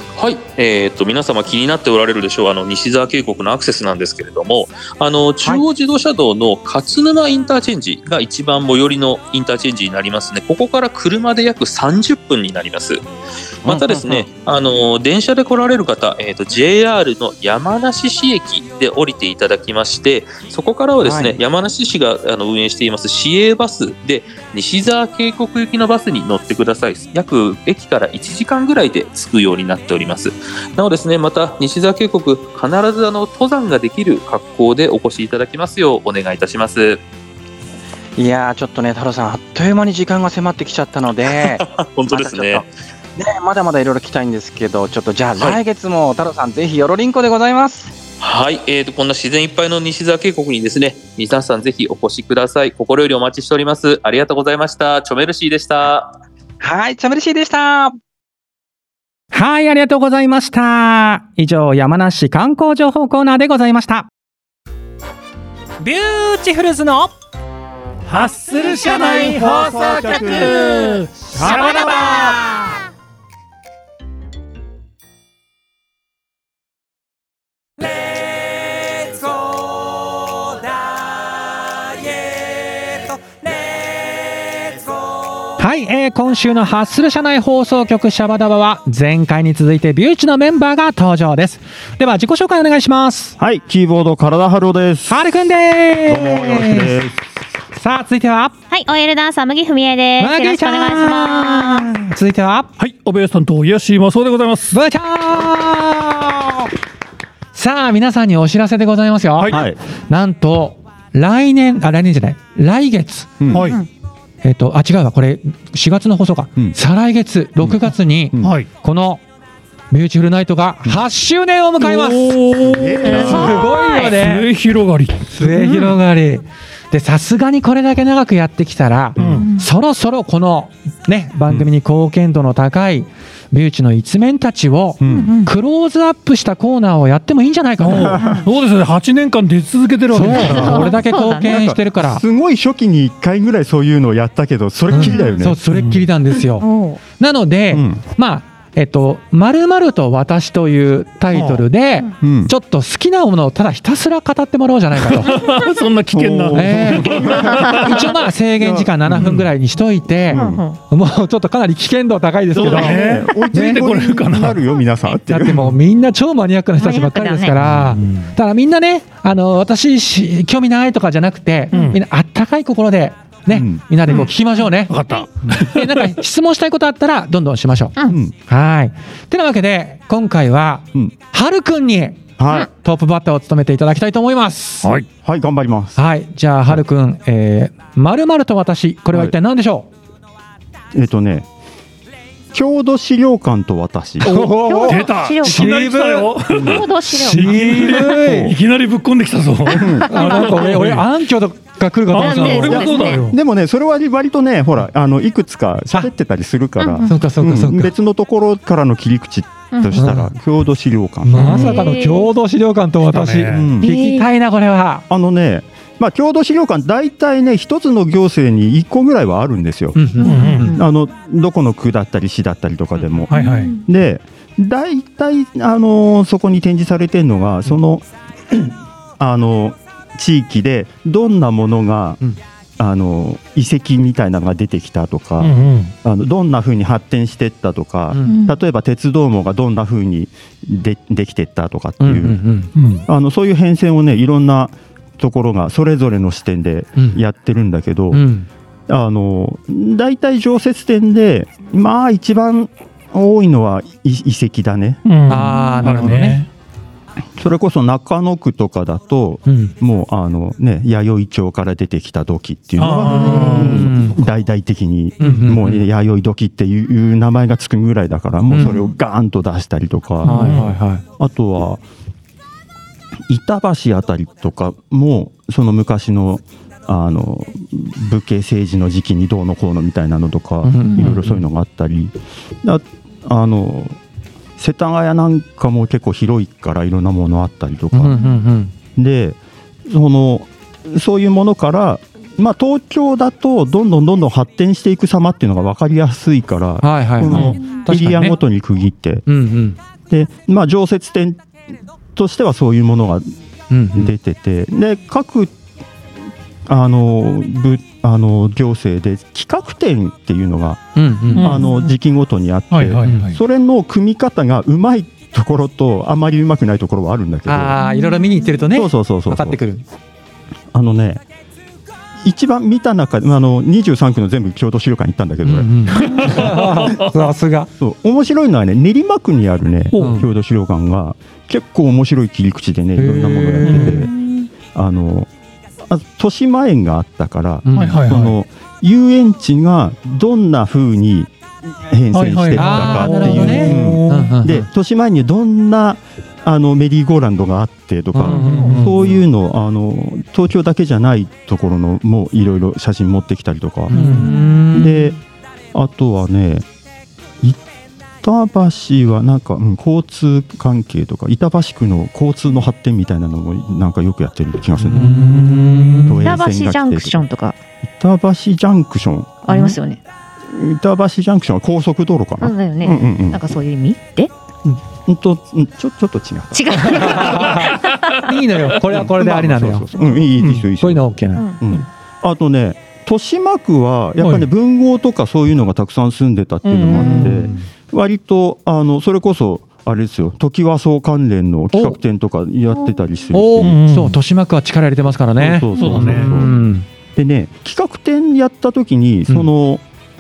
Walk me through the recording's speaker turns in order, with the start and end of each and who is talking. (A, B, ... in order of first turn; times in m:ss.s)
0:00.2-0:13.0 A
0:13.7-0:14.2 B
0:13.7-0:37.0 A
0:21.0-0:21.4 B
0:38.2-0:42.6 B
0:41.3-0:42.7 A
0:43.2-0:47.9 B
0:48.2-0:56.2 A
0:56.6-0:58.0 B
0:59.3-1:04.1 C
1:05.8-1:07.1 C
1:08.1-1:12.2 D
1:08.6-1:12.7 C
1:25.6-1:33.4 C
1:33.4-1:35.3 E
1:35.1-1:37.0 C
1:36.1-1:37.2 E
1:37.7-1:38.6 C
1:38.7-1:41.9 F
1:40.2-1:42.7 C
1:42.8-1:44.8 D
1:44.7-1:46.7 C
1:47.5-1:53.5 C
1:49.4-1:49.6 D
1:49.5-1:49.8 E
1:53.4-1:53.7 E
1:53.5-1:53.8 D
1:53.5-1:53.9 F
1:54.4-1:59.2 C
1:57.6-1:58.6 E
1:58.4-1:58.7 D
1:59.9-2:04.5 C
2:01.8-2:05.9 D
2:02.6-2:03.8 E
2:03.1-2:04.2 F
2:05.3-2:18.2 C
2:09.2-2:09.5 E
2:09.2-2:09.5 D
2:09.3-2:09.7 F
2:15.0-2:15.3 E
2:15.1-2:15.5 F
2:17.8-2:21.0 D
2:20.1-2:22.2 C
2:20.3-2:21.6 F
2:21.3-2:25.6 E
2:24.9-2:35.4 C
2:25.0-2:25.3 F
2:25.7-2:26.1 D
2:26.6-2:27.0 F
2:27.7-2:28.0 E
2:31.3-2:31.7 D
2:32.2-2:32.5 E
2:35.0-2:38.1 D
2:36.1-2:37.8 E
2:36.5-2:43.8 C
2:37.3-2:37.7 F
2:38.6-2:39.3 E
2:39.1-2:39.5 D
2:40.3-2:40.6 E
2:40.3-2:40.8 F
2:42.5-2:44.6 D
2:42.6-2:45.7 E
2:45.2-3:04.9 C
2:46.8-2:47.6 F
2:47.6-2:48.3 D
2:51.7-2:52.0 D
2:53.5-2:53.8 E
2:54.9-2:56.1 D
2:58.1-2:58.3 E
3:02.4-3:02.7 E
3:04.8-3:05.1 D
3:05.2-3:06.0 E
3:06.0-3:09.9 C
3:10.9-3:11.5 E
3:12.5-3:18.6 E
3:14.3-3:21.1 D
3:14.4-3:14.9 C
3:14.4-3:17.6 F
3:15.6-3:16.0 C
3:17.3-3:18.6 C
3:19.8-3:20.4 F
3:19.8-3:20.2 E
3:20.0-3:22.9 C
3:22.1-3:23.4 D
3:22.1-3:23.3 F
3:22.5-3:31.8 E
3:26.8-3:27.2 F
3:27.0-3:27.9 C
3:29.7-3:30.0 F
3:29.9-3:30.3 C
3:31.2-3:35.0 C
3:31.4-3:31.6 D
3:31.4-3:32.3 F
3:33.0-3:33.7 D
3:33.5-3:33.9 E
3:33.8-3:34.3 F
3:35.1-3:40.2 E
3:40.0-3:40.8 C
3:40.2-3:40.8 F
3:40.2-3:40.7 D
3:40.7-3:52.2 E
3:43.3-3:43.8 D
3:43.3-3:43.8 F
3:52.8-4:02.4 E
3:55.4-3:55.9 D
3:58.1-3:58.4 C
3:58.2-3:58.6 F
4:02.0-4:02.7 C
4:02.8-4:03.0 D
4:03.1-4:08.2 E
4:08.1-4:08.5 C
4:08.9-4:15.0 E
4:15.0-4:16.5 D
4:15.3-4:16.4 C
4:15.6-4:16.0 F
4:17.4-4:31.8 E
4:19.5-4:19.7 C
4:22.8-4:24.2 D
4:23.1-4:24.2 C
4:25.2-4:25.8 C
4:25.2-4:25.6 D
4:28.5-4:28.9 C
4:30.2-4:30.8 D
4:30.2-4:31.0 C
4:33.3-4:44.0 E
4:40.6-4:41.4 C
4:44.6-4:48.2 E
4:47.9-4:48.7 C
4:48.1-4:48.4 F
4:49.0-4:59.2 E
4:56.8-4:58.4 C
4:57.3-4:57.6 D
4:59.3-4:59.8 C
5:00.1-5:01.5 E
5:02.1-5:03.3 E
5:03.7-5:04.1 C
5:03.9-5:05.5 E
5:06.7-5:17.8 E
5:11.0-5:11.6 C
5:11.3-5:11.7 D
5:11.4-5:11.9 F
5:12.7-5:13.4 D
5:13.0-5:13.3 C
5:17.5-5:19.8 C
5:17.8-5:18.7 F
5:18.7-5:19.6 E
5:20.7-5:21.2 E
5:22.2-5:26.6 E
5:25.4-5:27.7 C
5:26.0-5:27.0 D
5:27.8-5:34.1 E
5:29.9-5:30.2 D
5:30.0-5:30.2 C
5:33.0-5:34.1 C
5:33.6-5:34.0 D
5:34.1-5:34.4 F
5:34.7-5:35.3 E
5:35.8-5:55.2 E
5:37.7-5:38.0 C
5:37.7-5:38.4 D
5:42.1-5:44.4 D
5:42.6-5:44.7 C
5:48.2-5:48.9 C
5:48.2-5:49.1 D
5:53.9-5:55.1 C
5:53.9-5:54.3 D
5:54.2-5:54.6 F
5:55.7-5:56.6 E
5:58.2-6:05.2 E
6:04.8-6:06.4 C
6:05.0-6:06.0 D
6:06.0-6:07.2 E
6:06.2-6:07.6 F
6:07.8-6:09.8 E
6:09.5-6:10.0 F
6:10.4-6:13.4 E
6:12.4-6:14.3 F
6:14.9-6:17.3 E
6:16.5-6:17.7 F
6:16.7-6:21.5 C
6:18.9-6:33.8 E
6:21.4-6:21.6 F
6:24.2-6:24.5 D
6:26.7-6:27.6 C
6:33.3-6:36.9 C
6:33.6-6:34.2 D
6:35.4-6:36.5 E
6:35.8-6:36.3 D
6:37.2-6:39.8 E